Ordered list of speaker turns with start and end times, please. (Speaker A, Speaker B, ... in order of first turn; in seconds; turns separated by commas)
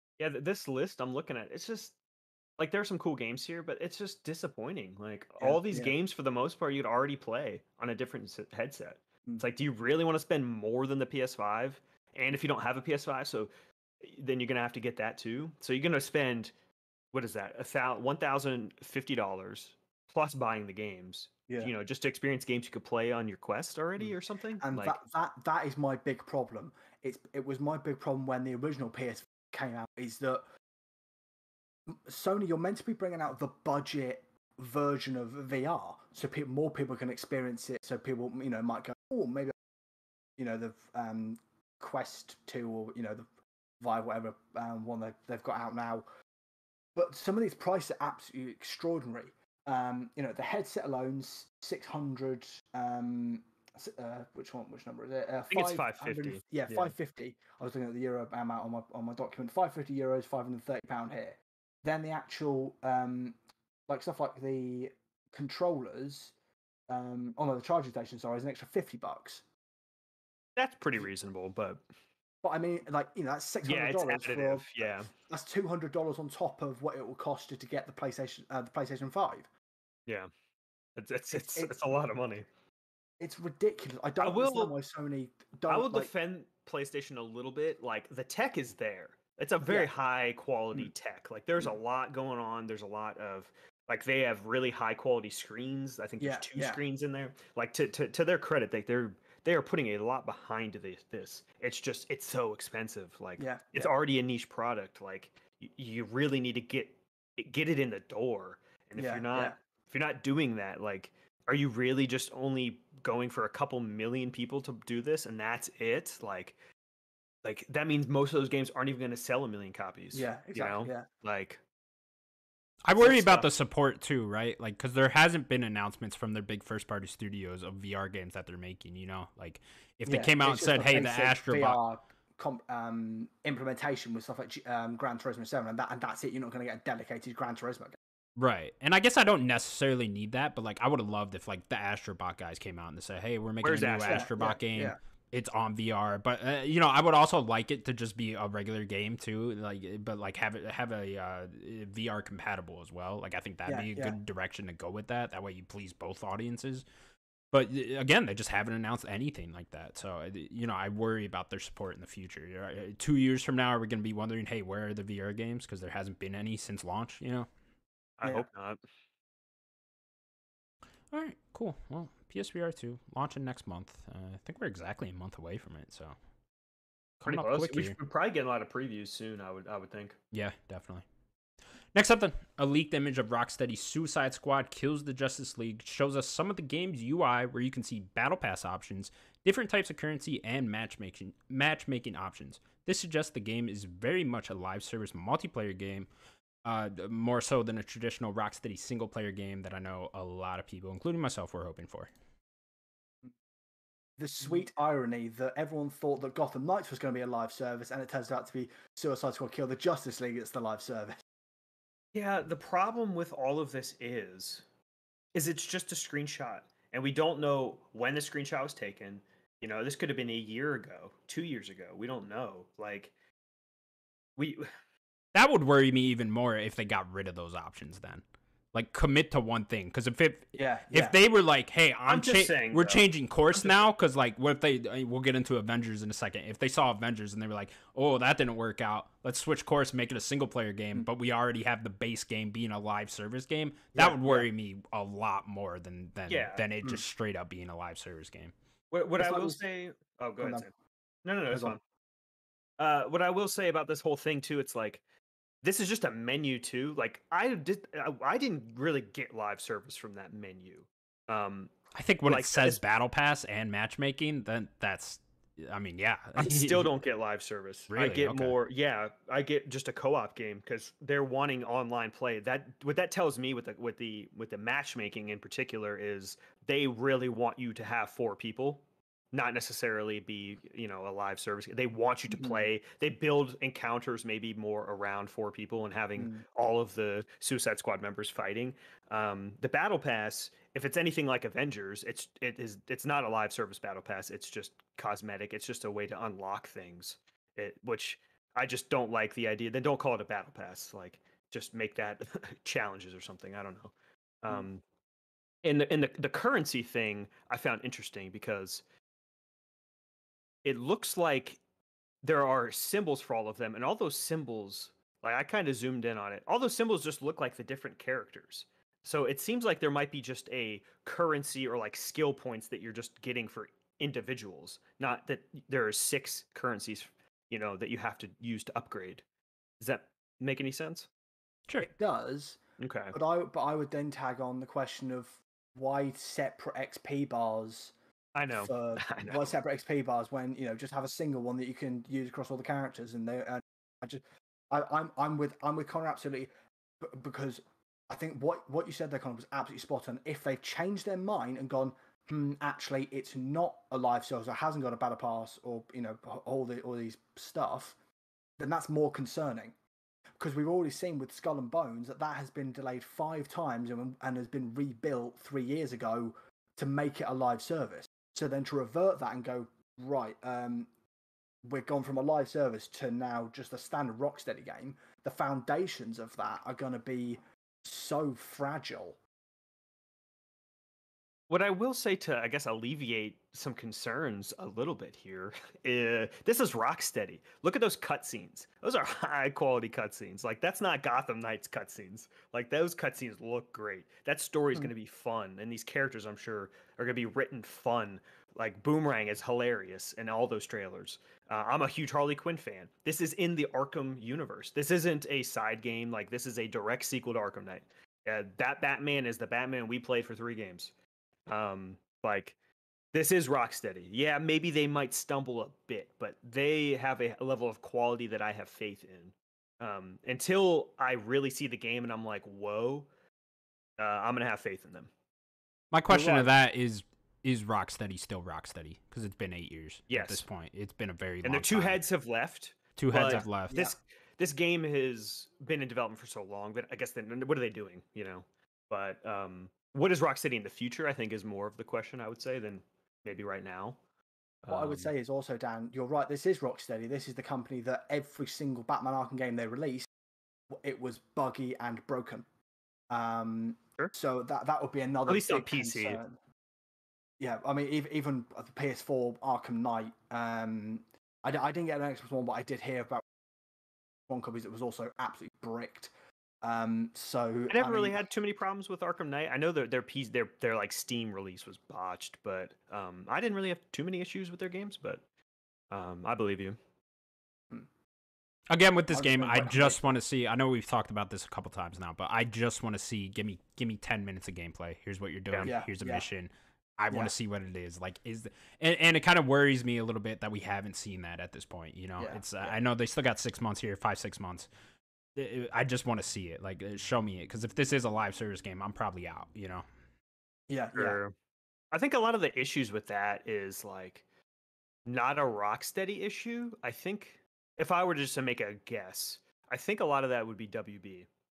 Speaker A: 0.2-1.9, Speaker A: 2.6-13.5, Speaker B: 5.4-5.9, Speaker A: 14.0-16.5, Speaker A: 17.1-25.0, Speaker B: 24.6-30.4, Speaker B: 31.9-39.5, Speaker B: 40.4-43.3, Speaker B: 43.8-46.1, Speaker B: 47.0-63.4, Speaker A: 55.5-56.9, Speaker B: 63.9-66.3, Speaker B: 66.9-69.4, Speaker A: 70.6-71.8, Speaker B: 72.4-79.5, Speaker A: 73.7-75.1, Speaker A: 81.0-82.5, Speaker B: 81.3-81.7, Speaker B: 83.2-86.1, Speaker A: 84.2-84.7, Speaker A: 85.7-116.6, Speaker B: 96.2-96.8, Speaker B: 103.4-103.9, Speaker B: 109.0-109.5, Speaker A: 117.4-121.6, Speaker B: 120.1-121.1, Speaker C: 122.8-131.8, Speaker A: 123.0-123.5, Speaker B: 130.1-138.0, Speaker C: 138.4-156.8, Speaker A: 143.6-144.3, Speaker B: 144.1-145.0, Speaker B: 153.7-154.2, Speaker C: 157.5-167.5, Speaker A: 168.2-168.8, Speaker C: 171.1-176.2, Speaker C: 177.2-178.0, Speaker A: 177.2-180.2, Speaker C: 180.3-181.1, Speaker C: 181.9-196.1, Speaker C: 196.6-202.1, Speaker B: 204.2-211.2, Speaker A: 212.1-214.6, Speaker A: 215.3-223.1, Speaker A: 224.4-224.7, Speaker C: 225.3-248.5, Speaker B: 230.6-231.2, Speaker A: 232.1-233.8, Speaker B: 243.9-244.5, Speaker A: 246.3-246.7, Speaker A: 248.9-250.7, Speaker B: 249.2-249.6, Speaker B: 250.4-250.7, Speaker A: 251.2-251.8, Speaker A: 252.8-255.0, Speaker A: 255.6-262.8, Speaker C: 261.9-267.0, Speaker A: 266.4-304.8, Speaker C: 267.9-268.6, Speaker B: 282.3-282.7, Speaker B: 286.2-286.4, Speaker A: 305.6-308.8, Speaker A: 310.6-311.6, Speaker A: 312.2-329.2, Speaker A: 329.8-331.1, Speaker B: 331.8-332.6, Speaker A: 332.8-333.1, Speaker B: 333.1-337.9, Speaker A: 338.4-339.5, Speaker B: 338.6-358.0, Speaker B: 358.6-359.7, Speaker B: 360.4-370.9, Speaker B: 371.6-379.2, Speaker A: 381.5-410.9, Speaker A: 411.5-412.6, Speaker A: 413.1-423.1, Speaker A: 424.0-425.1, Speaker C: 425.9-432.0, Speaker A: 426.1-426.5, Speaker A: 430.1-430.4, Speaker A: 431.4-444.0, Speaker C: 433.0-433.8, Speaker B: 433.2-433.9, Speaker A: 444.6-445.1, Speaker B: 444.7-450.1, Speaker B: 450.7-452.4, Speaker B: 453.1-456.4, Speaker A: 455.3-456.2, Speaker B: 457.4-463.2, Speaker B: 464.3-466.1, Speaker B: 466.6-468.3, Speaker A: 467.7-475.2, Speaker A: 475.9-476.8, Speaker C: 478.7-494.7, Speaker B: 479.1-480.1, Speaker B: 485.6-486.3, Speaker C: 495.4-499.9, Speaker B: 500.7-501.2, Speaker A: 500.9-501.3, Speaker A: 501.9-504.2, Speaker A: 505.1-511.3